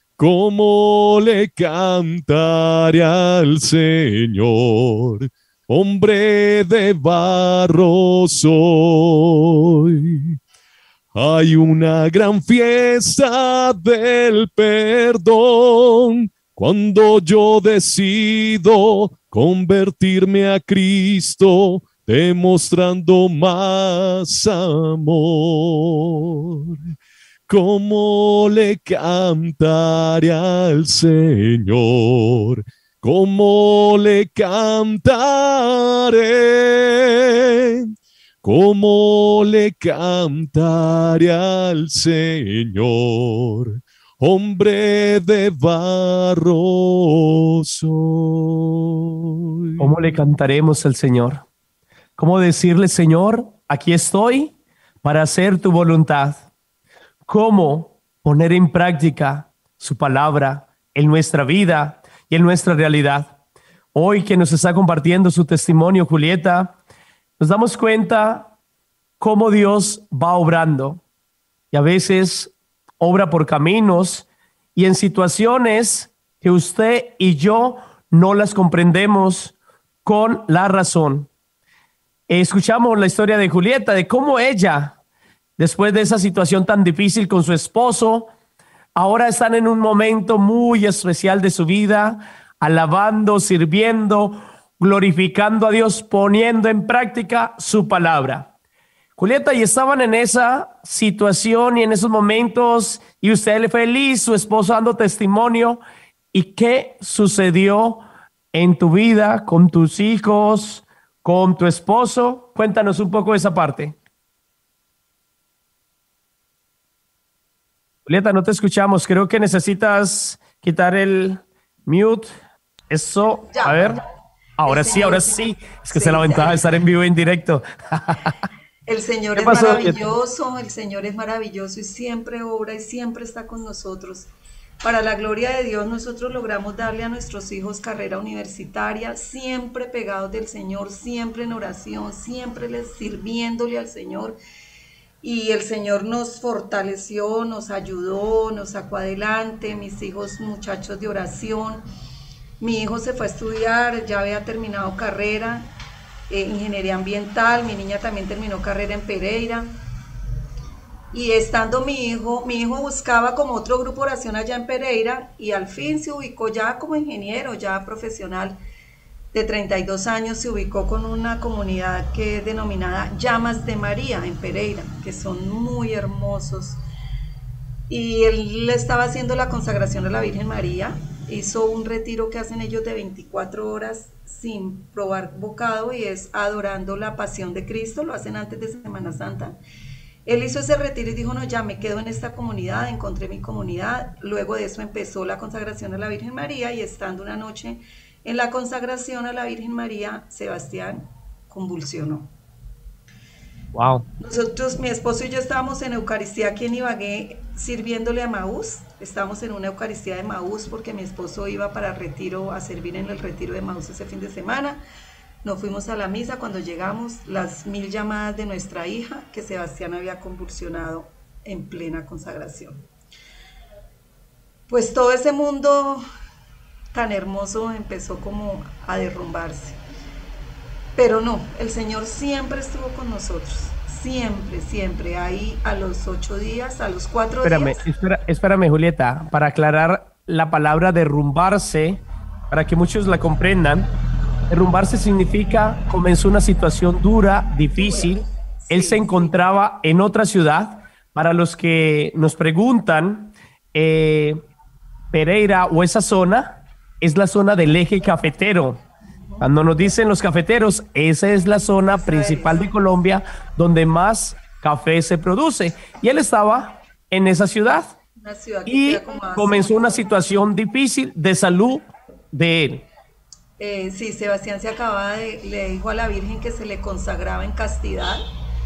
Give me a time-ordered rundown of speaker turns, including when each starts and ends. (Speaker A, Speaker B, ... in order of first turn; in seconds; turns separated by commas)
Speaker A: 0.2-10.4, Speaker A: 11.2-26.8, Speaker A: 27.5-37.9, Speaker A: 38.4-49.9, Speaker B: 49.8-51.5, Speaker B: 52.2-56.5, Speaker B: 57.3-63.4, Speaker B: 64.0-66.8, Speaker B: 67.4-68.5, Speaker B: 69.2-71.0, Speaker B: 71.7-81.3, Speaker B: 82.3-85.0, Speaker B: 85.6-88.3, Speaker B: 89.0-98.5, Speaker B: 99.2-105.8, Speaker B: 106.3-114.0, Speaker B: 118.1-122.3, Speaker B: 122.9-124.0, Speaker C: 123.5-124.0, Speaker B: 124.6-128.3, Speaker C: 124.7-126.7, Speaker C: 128.9-134.3, Speaker B: 129.3-130.1, Speaker C: 134.8-144.4, Speaker C: 145.2-151.8, Speaker C: 152.6-155.7, Speaker C: 156.3-159.7, Speaker C: 161.1-168.6, Speaker C: 169.3-176.8, Speaker C: 177.9-189.6, Speaker C: 190.3-202.3, Speaker B: 203.7-204.1, Speaker C: 204.2-214.8, Speaker C: 215.4-222.9, Speaker C: 224.7-226.0, Speaker C: 226.9-229.8, Speaker C: 231.0-237.8, Speaker B: 237.4-243.9, Speaker B: 244.5-254.4, Speaker C: 247.8-249.4, Speaker B: 255.1-258.8, Speaker C: 259.2-259.5, Speaker B: 259.4-268.0, Speaker C: 261.9-262.8, Speaker C: 268.2-270.1, Speaker B: 268.7-272.9, Speaker C: 273.6-278.2